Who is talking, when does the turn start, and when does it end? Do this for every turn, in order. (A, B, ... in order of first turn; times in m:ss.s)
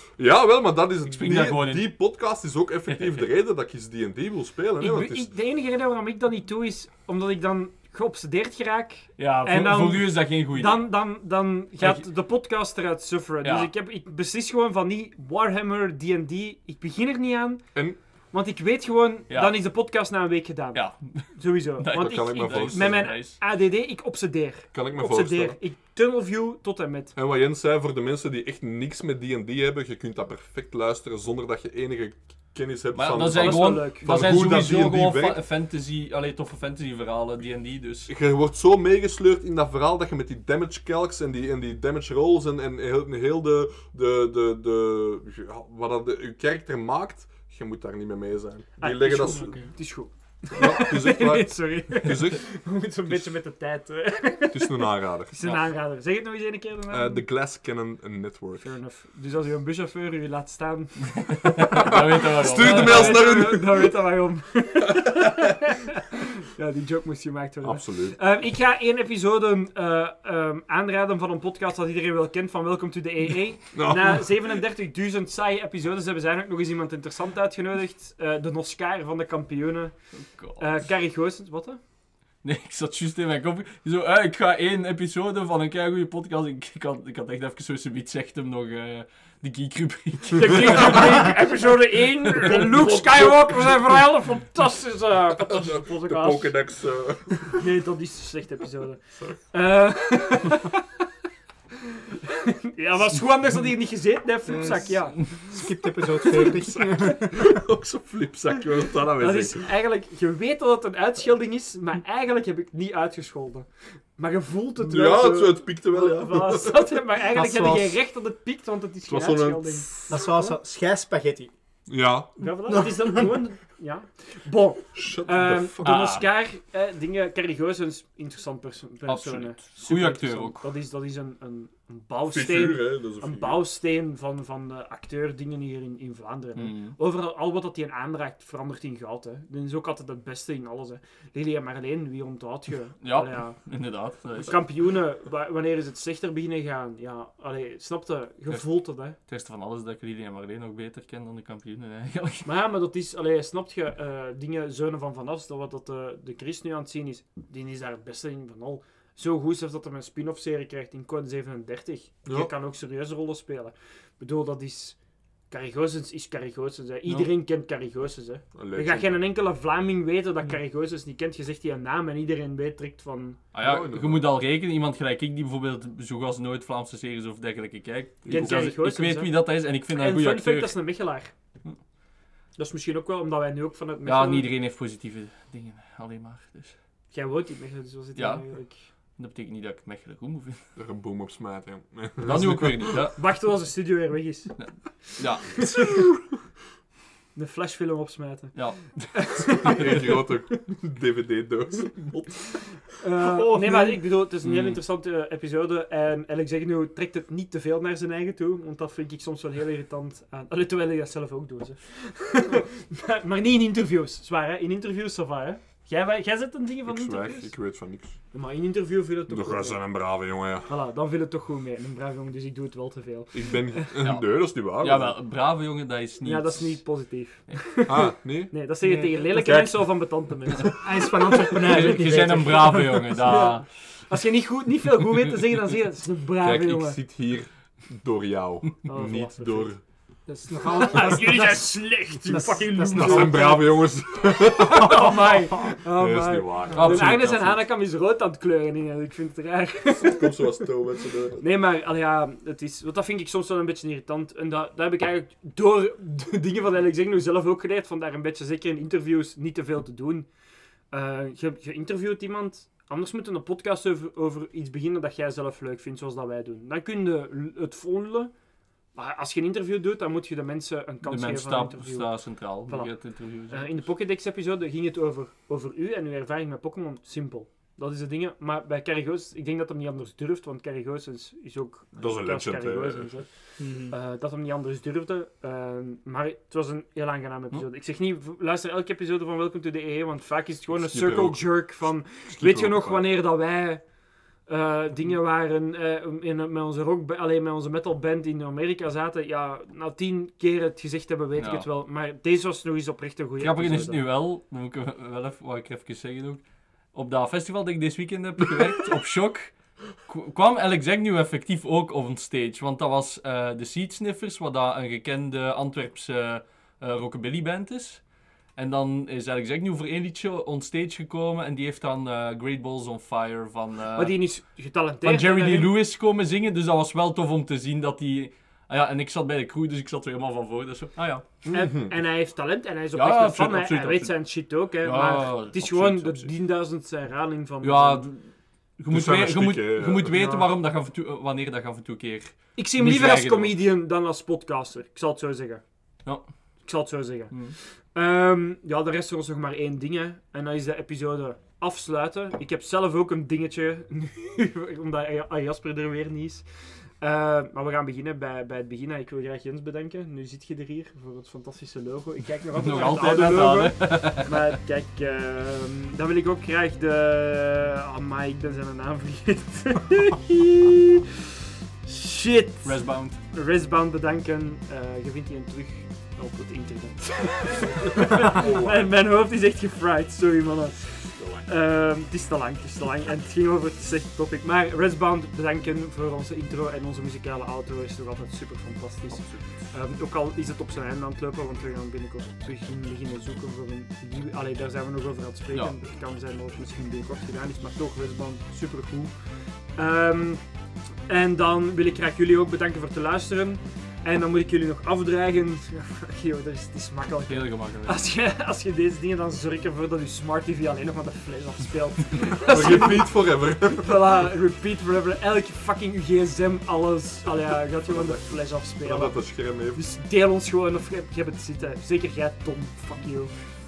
0:00.2-0:05.3 A
0:01.2-0:02.0 B
0:04.8-0:17.6 C
0:09.2-0:11.1 B
0:11.8-0:12.0 B
0:13.4-0:13.7 B
0:18.3-0:27.1 C
0:19.3-0:19.6 B
0:20.7-0:23.4 B
0:21.9-0:23.1 A
0:24.7-0:25.6 A
0:27.1-0:35.4 A
0:32.9-0:38.1 B
0:33.3-0:34.3 C
0:38.1-0:49.7 A
0:48.8-0:57.2 C
0:49.3-0:49.7 D
0:50.5-0:52.5 A
0:53.1-0:53.3 A
0:54.5-0:55.3 A
0:56.9-0:58.7 A
0:58.6-1:01.3 C
1:01.6-1:03.4 B
1:01.7-1:03.9 A
1:02.5-1:05.8 C
1:06.5-1:21.8 C
1:07.6-1:08.2 A
1:13.7-1:14.6 A
1:20.2-1:20.7 B
1:22.4-1:31.5 B
1:30.3-1:36.6 C
1:32.4-1:33.8 A
1:35.3-1:37.5 A
1:37.6-1:40.8 C
1:39.1-1:39.4 A
1:42.7-1:45.3 C
1:44.5-1:47.5 D
1:47.3-1:49.6 A
1:49.2-2:00.5 C
1:54.8-1:56.9 A
1:57.3-1:58.0 D
1:59.0-2:00.1 A
2:00.1-2:01.5 D
2:01.9-2:02.4 A
2:02.4-2:23.6 C
2:02.6-2:03.4 D
2:04.9-2:06.0 A
2:05.8-2:06.3 B
2:09.1-2:10.6 B
2:12.2-2:13.6 A
2:16.6-2:17.0 B
2:23.0-2:24.6 B
2:24.4-2:29.2 C
2:28.5-2:32.5 B
2:32.4-2:45.0 C
2:42.2-2:42.5 A
2:45.5-2:53.4 C
2:48.5-2:49.2 A
2:53.5-3:00.8 B
2:53.6-2:54.3 A
2:58.2-2:58.6 A
2:58.3-3:01.3 C
3:02.6-3:04.5 C
3:04.0-3:06.8 B
3:07.1-3:08.8 C
3:08.2-3:10.6 B
3:10.7-3:12.9 A
3:12.2-3:13.2 B
3:13.2-3:14.5 C
3:14.6-3:15.6 B
3:17.3-3:18.6 C
3:18.5-3:19.1 B
3:19.1-3:20.2 C
3:19.6-3:22.6 A
3:23.0-3:37.6 C
3:23.2-3:24.0 D
3:24.4-3:24.8 B
3:36.8-3:38.2 A
3:38.3-3:43.6 C
3:39.3-3:40.7 A
3:43.3-3:45.2 A
3:44.0-3:47.6 B
3:46.2-3:51.1 C
3:47.8-3:48.6 A
3:48.8-3:49.2 D
3:49.4-3:49.8 A
3:50.8-3:53.0 D
3:51.7-3:53.6 B
3:53.2-3:57.0 C
3:56.4-3:59.8 A
3:58.9-3:59.7 C
4:00.3-4:03.5 D
4:00.7-4:03.9 C
4:02.9-4:07.2 A
4:04.4-4:10.3 C
4:06.7-4:07.7 B
4:09.9-4:11.4 A
4:11.4-4:20.3 C
4:20.9-4:28.3 C
4:28.9-4:53.9 C
4:31.0-4:33.9 B
4:41.9-4:43.2 A
4:43.6-4:43.9 D
4:50.7-4:53.1 A
4:54.4-5:04.0 C
5:01.4-5:01.7 B
5:03.4-5:31.5 B
5:24.0-5:25.7 C
5:31.5-5:38.0 C
5:31.5-5:31.9 A
5:32.9-5:36.3 B
5:37.6-5:43.6 B
5:38.9-5:40.1 A
5:40.1-5:40.5 C
5:42.5-5:45.6 C
5:46.0-5:46.3 B
5:46.6-5:56.4 C
5:47.3-5:47.6 B
5:57.0-6:11.0 C
6:02.6-6:04.5 B
6:11.8-6:40.4 C
6:12.6-6:13.2 B
6:17.6-6:18.9 A
6:21.2-6:21.4 A
6:29.1-6:29.6 B
6:35.5-6:35.7 B
6:41.1-7:03.3 C
6:47.3-6:48.0 B
6:52.4-6:54.2 A
6:57.8-6:59.8 A